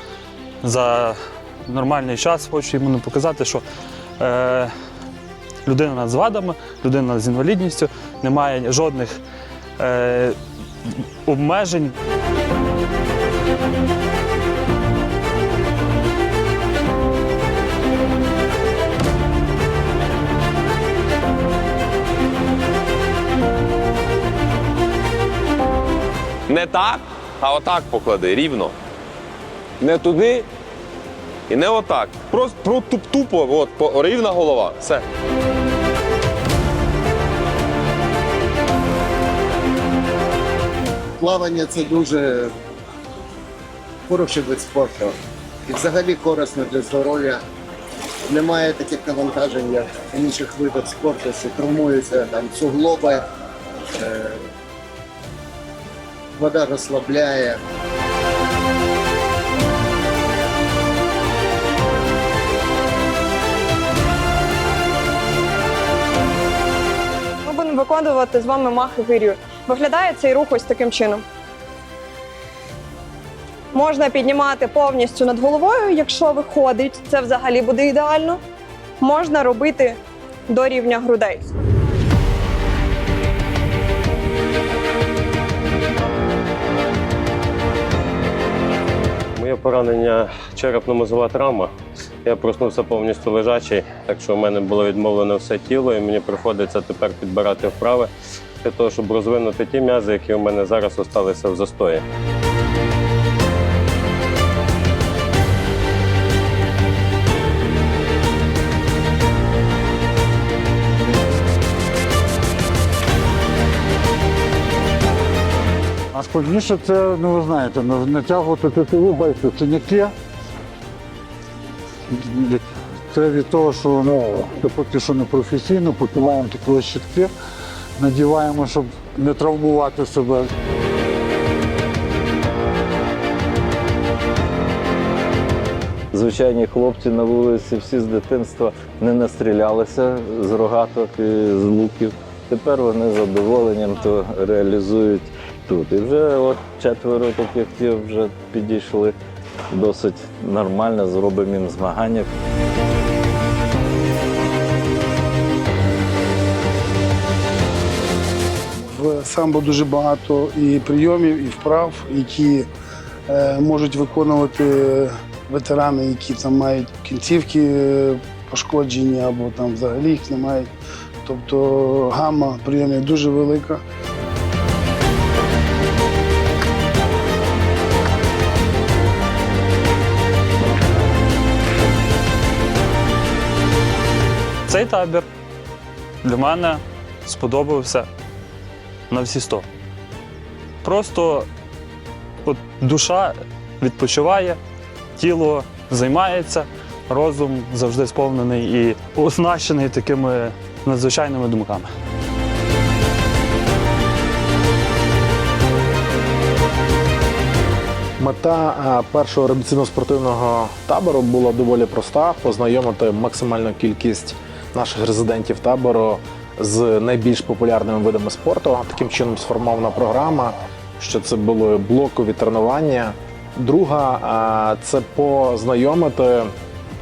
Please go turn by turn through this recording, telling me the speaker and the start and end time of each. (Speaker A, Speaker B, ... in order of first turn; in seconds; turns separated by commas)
Speaker A: 0.6-3.6, Speaker A: 4.2-4.7, Speaker A: 5.6-9.2, Speaker A: 9.8-11.9, Speaker B: 26.5-28.7, Speaker B: 29.8-30.4, Speaker B: 31.5-35.0, Speaker C: 41.2-42.5, Speaker C: 44.1-45.1, Speaker C: 45.7-47.4, Speaker C: 48.3-53.2, Speaker C: 54.0-54.4, Speaker C: 56.4-57.6, Speaker D: 67.4-71.2, Speaker D: 73.7-78.4, Speaker D: 79.0-80.0, Speaker D: 80.5-81.5, Speaker E: 89.3-91.7, Speaker E: 92.2-98.1, Speaker E: 98.6-102.0, Speaker F: 116.1-120.1, Speaker F: 122.2-127.3, Speaker F: 128.0-130.5, Speaker G: 136.1-149.1, Speaker G: 149.7-152.3, Speaker H: 158.9-162.7, Speaker H: 163.3-170.7, Speaker H: 171.2-173.8, Speaker A: 184.7-185.2, Speaker A: 186.2-188.1, Speaker A: 189.1-189.7, Speaker A: 190.8-191.5, Speaker A: 192.4-194.6, Speaker A: 195.2-201.9, Speaker I: 208.2-226.5